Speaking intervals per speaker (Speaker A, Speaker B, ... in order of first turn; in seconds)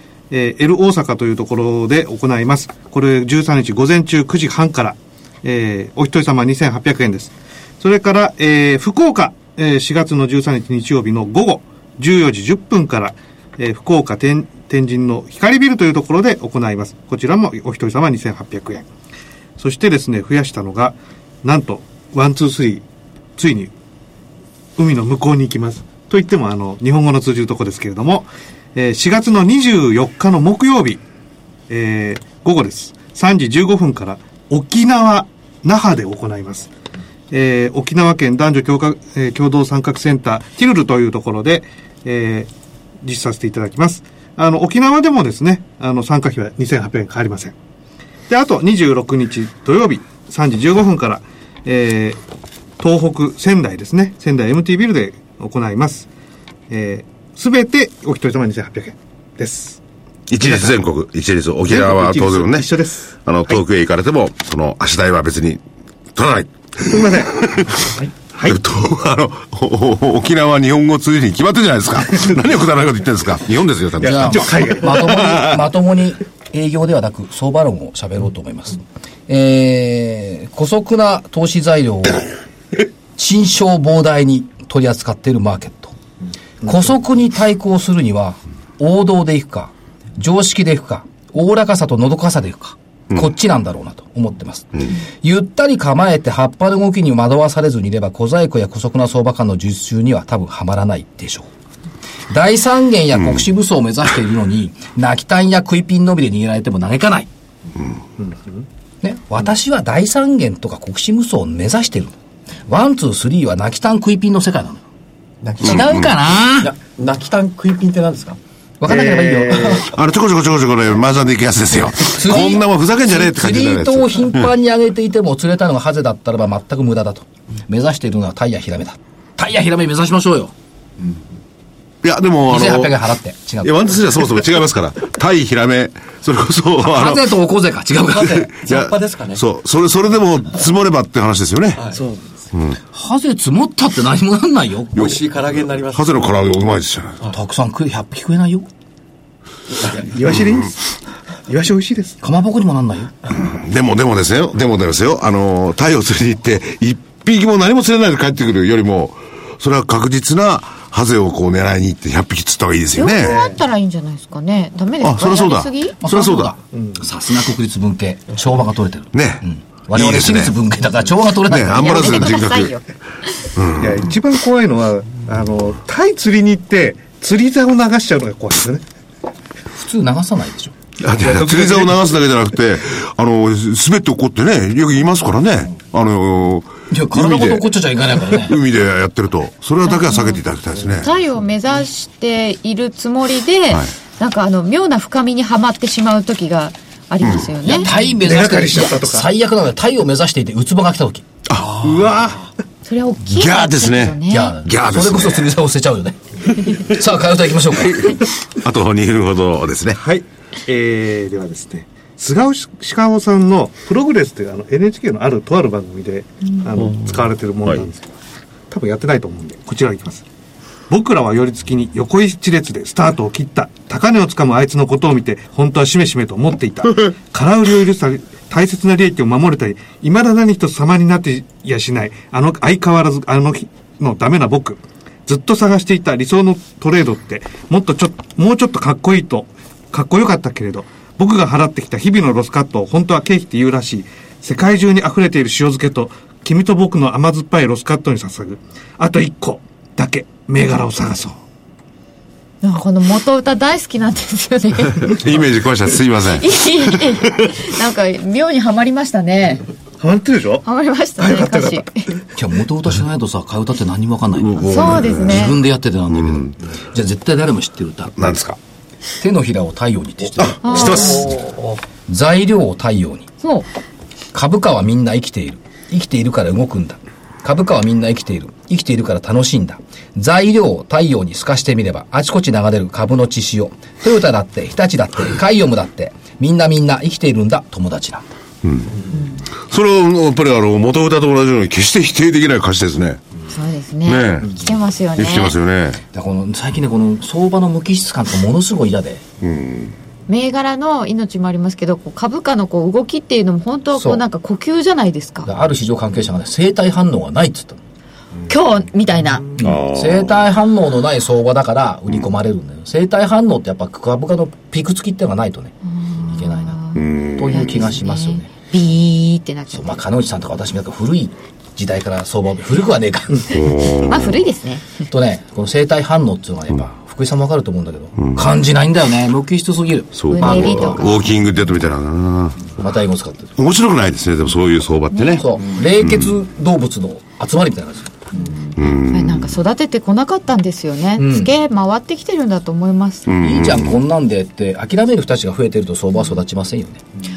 Speaker A: 0.3-18.9, 19.6-22.9, 23.4-23.7, 24.8-31.0, 31.7-36.7, 37.3-42.5, 43.0-47.5, 48.3-52.2, 52.8-56.1, 56.7-59.8, 60.4-60.8, 61.7-63.6, 66.9-67.3, 67.9-68.6, 74.0-75.6, 108.2-108.7, 118.9-119.8, 149.8-152.2, 163.2-163.6, 166.7-167.1, 173.8-178.8, 181.2-182.0, 198.2-199.3, 201.6-202.5, 209.9-218.1, 218.7-220.2, 220.9-251.4, 260.0-260.7, 261.2-261.9
Speaker B: 60.3-65.6, 66.2-67.8, 68.4-74.6, 115.6-116.1, 119.8-124.5, 132.0-133.0, 133.6-137.3, 138.6-142.0, 145.0-147.2, 153.3-163.4, 165.0-166.5, 169.1-170.6, 171.3-172.8, 173.6-174.1, 181.0-187.7, 188.3-191.1, 197.2-197.7, 201.5-202.1, 203.3-205.5, 208.1-210.0, 255.0-256.6, 264.4-265.5, 266.1-266.6, 268.2-268.6, 270.4-271.4, 288.6-293.2, 294.1-294.6, 295.1-296.0, 299.4-299.9, 309.6-310.4, 316.9-317.9, 323.4-324.5, 328.2-328.5, 330.1-332.7, 333.6-335.5, 336.0-336.4, 338.8-339.6, 343.3-343.9
Speaker C: 74.0-82.3, 83.2-86.0, 86.6-101.5, 102.3-107.3, 109.0-112.2, 112.7-114.8, 115.6-116.8, 118.8-119.9, 122.1-130.5, 132.5-133.9, 136.8-138.5, 142.9-145.2, 147.3-148.7, 152.2-153.2, 166.0-172.5, 179.7-180.8, 186.9-188.6, 197.6-201.3, 204.3-208.2, 262.3-268.4, 269.2-271.3, 272.1-273.3, 274.3-288.3, 296.1-299.2, 303.9-304.2, 305.4-307.8, 309.6-318.5, 319.7-323.7, 325.1-331.2, 332.8-333.6, 335.2-338.3, 341.2-341.5, 343.4-347.0
Speaker D: 115.4-115.8, 116.6-118.4, 138.2-139.4, 141.8-142.5, 145.0-146.2, 271.3-271.7
Speaker E: 162.9-166.0, 171.7-172.8, 189.8-190.4, 190.9-197.9, 202.8-204.6, 252.6-255.2, 256.3-259.7, 260.6-262.1, 264.6-265.6, 270.6-271.3, 273.4-273.7, 293.5-295.6, 300.3-305.5, 308.5-309.5, 315.9-319.9, 324.1-325.0, 330.3-331.3, 335.1-335.4, 338.3-343.3